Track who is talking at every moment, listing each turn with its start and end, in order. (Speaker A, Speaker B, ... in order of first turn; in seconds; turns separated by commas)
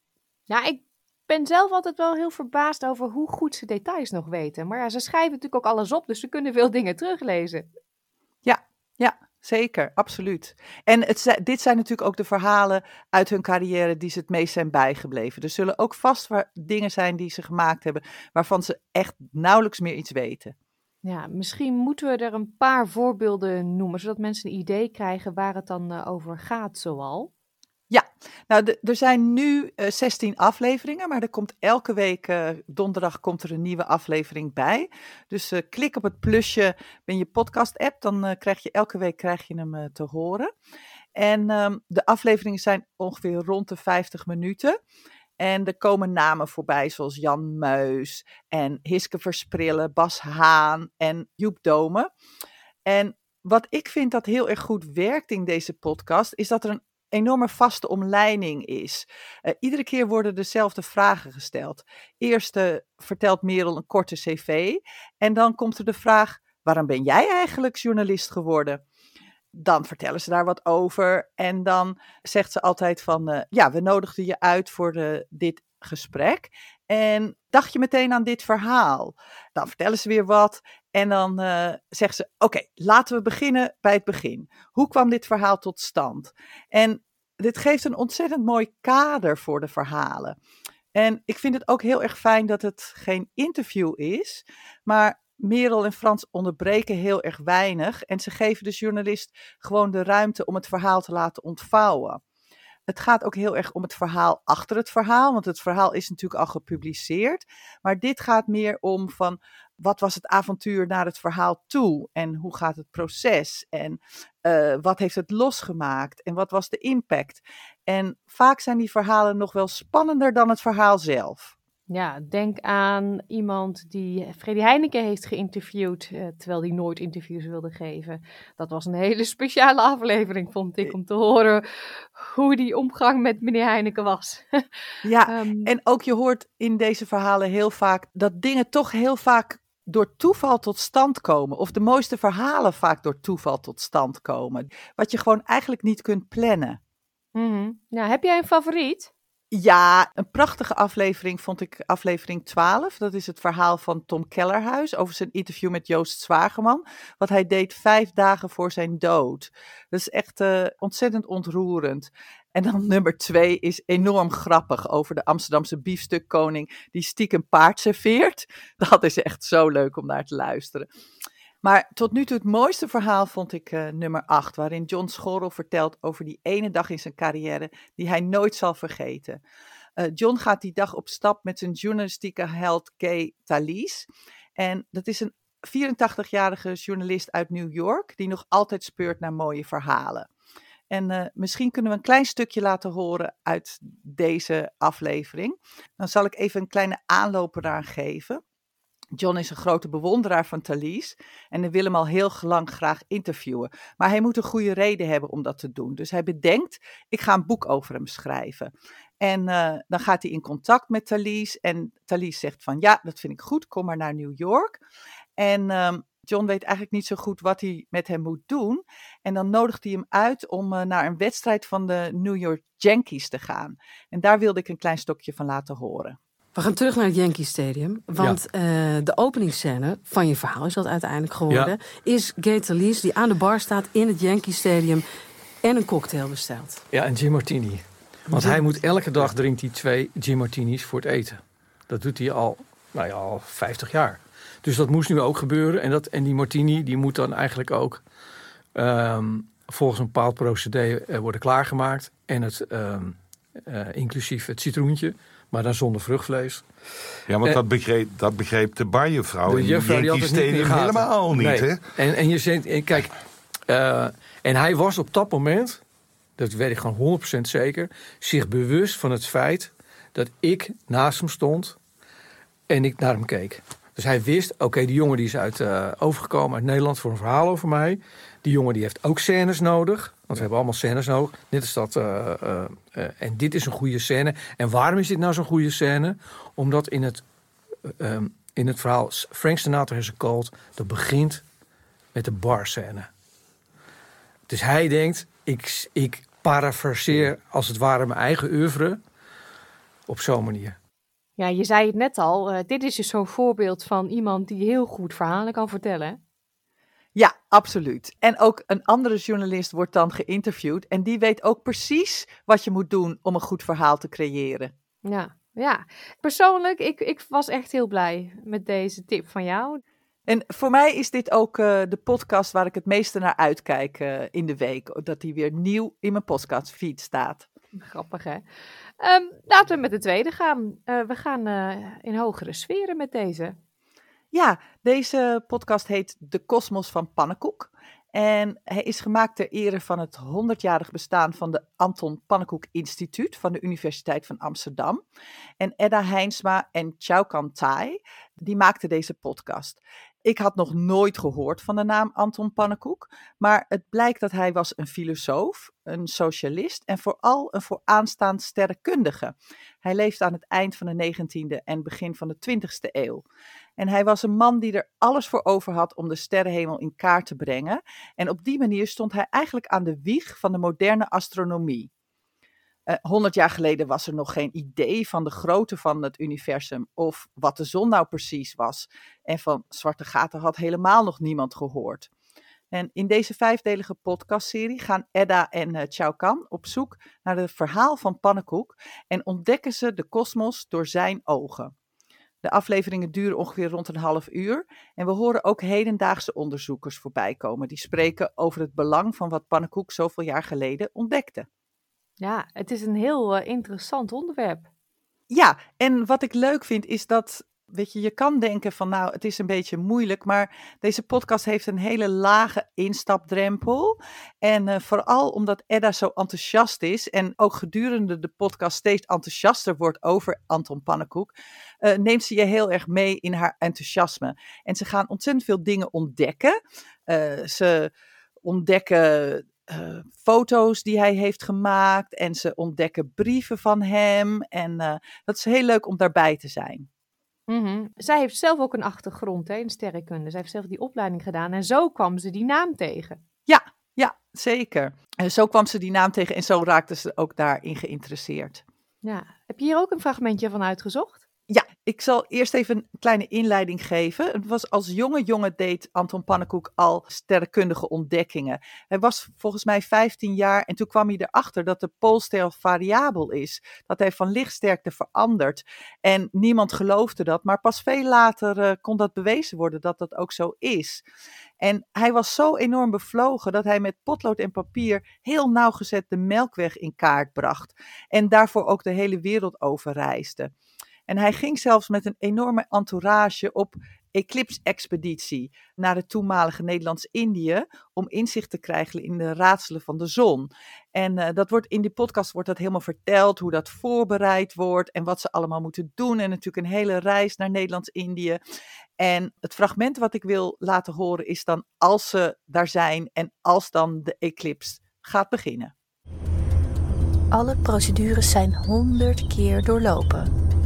Speaker A: 0.5-7.7, Speaker B: 8.4-20.5, Speaker A: 21.0-27.3, Speaker B: 27.9-40.5, Speaker B: 41.2-44.8, Speaker B: 45.4-52.1, Speaker B: 52.9-68.8, Speaker B: 69.5-90.4, Speaker B: 91.0-102.2, Speaker B: 102.9-121.6, Speaker A: 121.9-131.6, Speaker A: 132.2-134.6, Speaker B: 135.0-146.8, Speaker A: 135.3-135.7, Speaker A: 147.3-149.1, Speaker B: 149.5-170.9, Speaker B: 171.6-179.4, Speaker B: 180.0-184.1, Speaker B: 184.6-190.3, Speaker B: 190.9-198.4, Speaker B: 199.2-214.8, Speaker B: 215.4-226.2, Speaker C: 226.6-235.0, Speaker D: 231.5-231.8, Speaker C: 235.6-236.8, Speaker D: 236.9-248.0, Speaker C: 238.3-238.8, Speaker D: 248.8-256.6, Speaker E: 257.3-261.8, Speaker D: 259.5-263.1, Speaker D: 263.7-265.8, Speaker D: 266.4-271.8, Speaker D: 272.7-287.2, Speaker D: 287.9-291.4, Speaker D: 292.1-293.1, Speaker D: 294.5-299.0, Speaker D: 300.1-300.8, Speaker A: 301.4-306.2, Speaker B: 307.2-314.7, Speaker A: 315.1-319.8, Speaker B: 320.3-327.5, Speaker A: 327.8-328.4, Speaker A: 329.0-333.6, Speaker B: 334.3-345.0, Speaker B: 345.6-363.2, Speaker B: 363.8-371.9, Speaker B: 372.9-382.1, Speaker B: 382.7-391.7, Speaker B: 392.4-401.5, Speaker A: 402.2-404.7, Speaker B: 405.3-421.3, Speaker B: 421.8-426.6, Speaker B: 427.1-427.9, Speaker B: 428.4-436.9, Speaker A: 437.5-443.2, Speaker B: 443.5-448.6, Speaker A: 449.0-451.2, Speaker B: 451.5-471.0, Speaker B: 471.6-480.5, Speaker B: 481.1-498.4, Speaker B: 499.0-505.7, Speaker F: 507.3-510.3